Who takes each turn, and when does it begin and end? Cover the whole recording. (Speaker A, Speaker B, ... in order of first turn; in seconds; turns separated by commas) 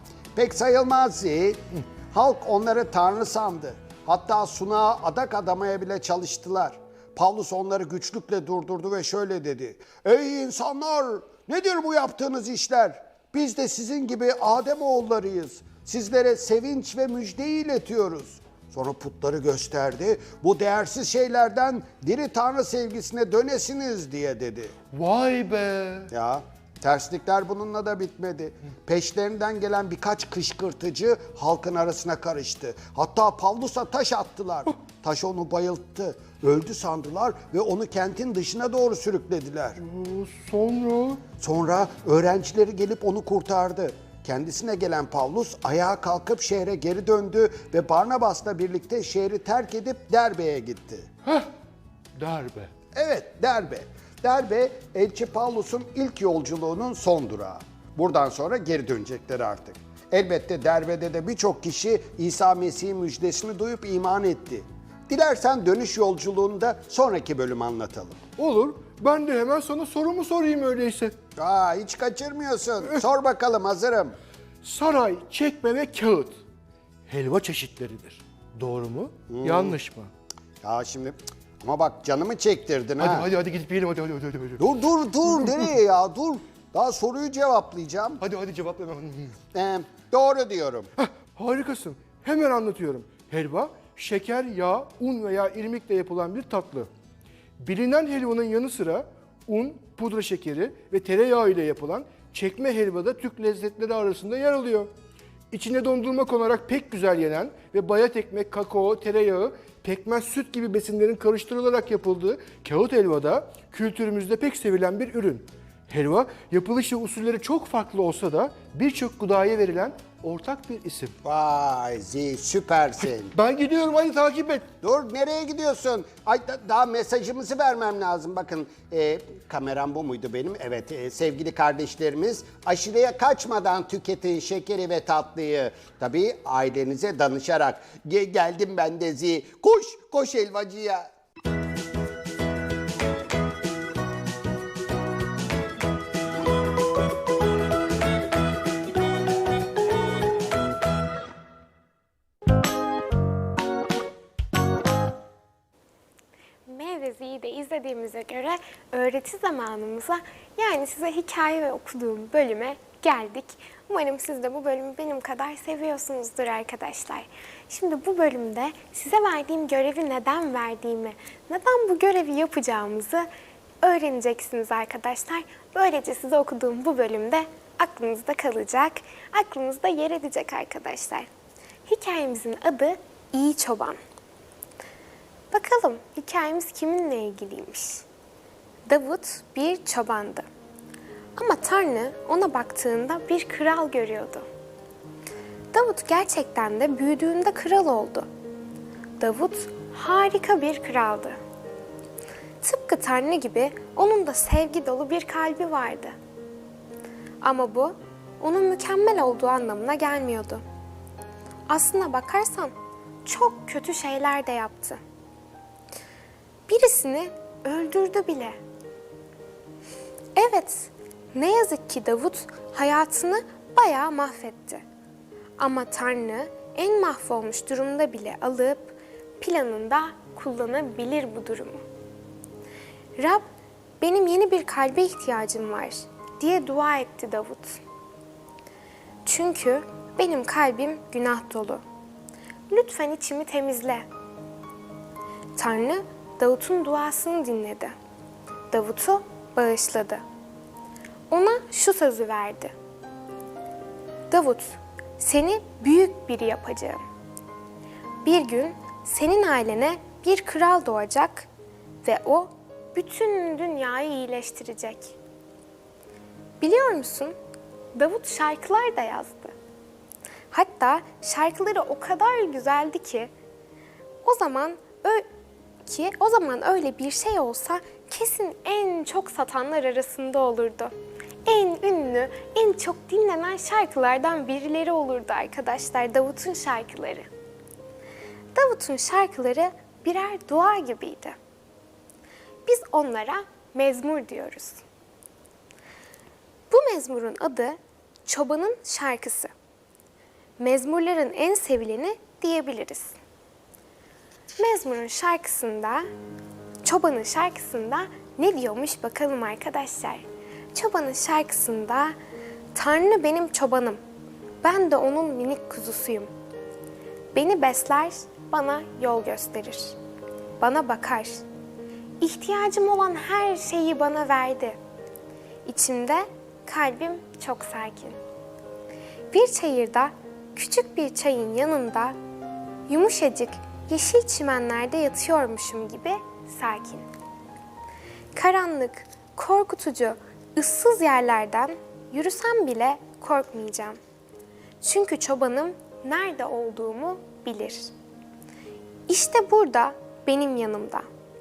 Speaker A: 0.3-24.7, Speaker B: 24.9-26.1, Speaker A: 26.1-39.8, Speaker B: 39.8-41.2, Speaker A: 41.4-51.1, Speaker B: 51.2-51.5, Speaker B: 52.2-52.7, Speaker A: 52.9-68.2, Speaker B: 68.4-71.1, Speaker A: 71.3-74.2, Speaker B: 74.6-76.4, Speaker B: 77.1-80.1, Speaker A: 79.3-79.8, Speaker A: 80.6-83.3, Speaker B: 83.0-84.6, Speaker A: 84.6-88.2, Speaker B: 88.2-89.3, Speaker A: 89.5-90.9, Speaker B: 91.0-96.9, Speaker B: 97.6-104.9, Speaker B: 105.5-121.2, Speaker A: 121.2-123.3, Speaker B: 123.3-124.7, Speaker A: 124.8-141.1, Speaker C: 156.7-173.3, Speaker C: 173.8-181.3, Speaker C: 181.8-184.0, Speaker C: 185.5-188.0, Speaker C: 188.9-190.4, Speaker C: 191.3-194.4, Speaker C: 195.7-198.3, Speaker C: 199.2-201.4, Speaker C: 202.6-206.2, Speaker C: 207.4-210.6, Speaker C: 211.7-212.7, Speaker C: 213.2-215.0, Speaker C: 216.7-218.6, Speaker C: 220.3-224.8, Speaker C: 225.6-231.8, Speaker C: 233.2-233.4, Speaker C: 234.0-237.8, Speaker C: 239.2-241.8, Speaker C: 242.7-244.1, Speaker C: 245.6-247.9, Speaker C: 248.7-250.2, Speaker C: 251.3-252.7, Speaker C: 254.3-257.0, Speaker C: 258.2-261.5, Speaker C: 262.0-265.1, Speaker C: 266.6-267.3, Speaker C: 267.9-269.5, Speaker C: 270.5-273.3, Speaker C: 274.2-275.2, Speaker C: 275.8-280.9, Speaker C: 281.4-287.3, Speaker C: 288.5-291.4, Speaker C: 292.6-294.8, Speaker C: 296.7-299.5, Speaker C: 300.6-303.1, Speaker C: 304.6-306.1, Speaker C: 306.8-312.1, Speaker C: 312.7-314.0, Speaker C: 314.6-316.3, Speaker C: 317.3-319.9, Speaker C: 320.6-321.4, Speaker C: 322.2-324.8, Speaker C: 325.6-328.2, Speaker C: 329.3-332.1, Speaker C: 332.9-337.1, Speaker C: 338.3-344.0, Speaker C: 344.8-347.9, Speaker C: 349.1-351.1